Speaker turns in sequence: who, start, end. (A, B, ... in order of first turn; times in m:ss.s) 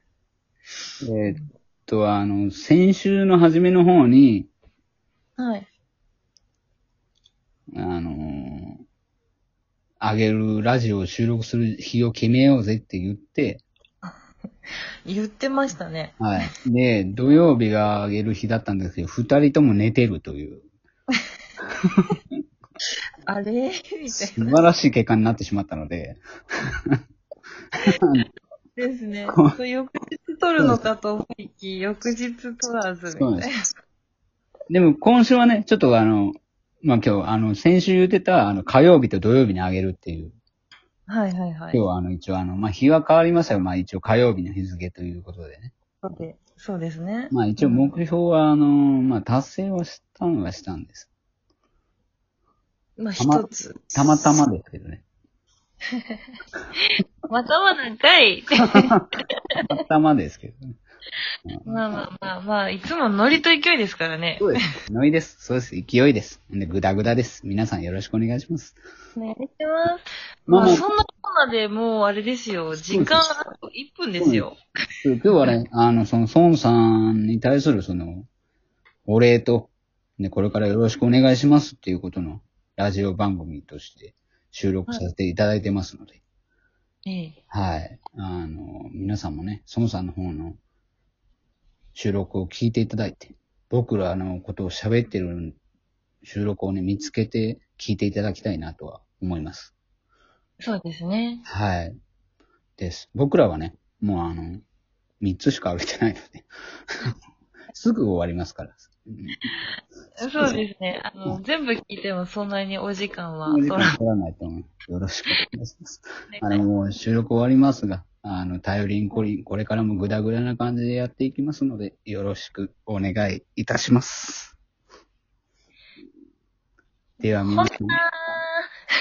0:01.0-0:04.5 A
0:05.4-0:05.7 B
0:07.7-0:08.8 A
0:10.0-0:13.6 A
0:15.0-0:16.4 B
0:16.2-0:20.6 A
0:23.3-0:24.6 B
0:24.1-0:27.0 A
0:27.8-0:28.2 A
0:28.8-0:33.5 B
0:29.3-0:29.5 A
0:33.2-0:33.5 A
0:34.7-0:40.4 A
0:41.1-0:41.8 B
0:41.7-0:45.7 A
0:46.0-0:47.9 B
0:47.3-0:51.1 A
0:53.0-0:54.4 B
0:53.2-0:55.0 A
0:57.3-0:58.9 B
0:58.7-0:59.0 A
0:59.7-1:00.7 A
1:01.6-1:04.6 B
1:04.4-1:08.8 A
1:09.2-1:14.6 B
1:10.5-1:10.8 A
1:12.9-1:13.2 A
1:14.2-1:18.3 A
1:19.1-1:26.2 A
1:27.0-1:27.4 B
1:27.5-1:30.6 A
1:31.9-1:35.6 A
1:36.2-1:39.7 A
1:40.6-1:41.4 B
1:41.4-1:42.0 A
1:42.8-1:44.6 A
1:45.2-1:46.5 A
1:47.7-1:49.5 A
1:50.2-1:54.0 B
1:53.5-2:04.5 A
1:56.3-1:56.6 B
2:07.2-2:08.0 A
2:07.4-2:08.7 B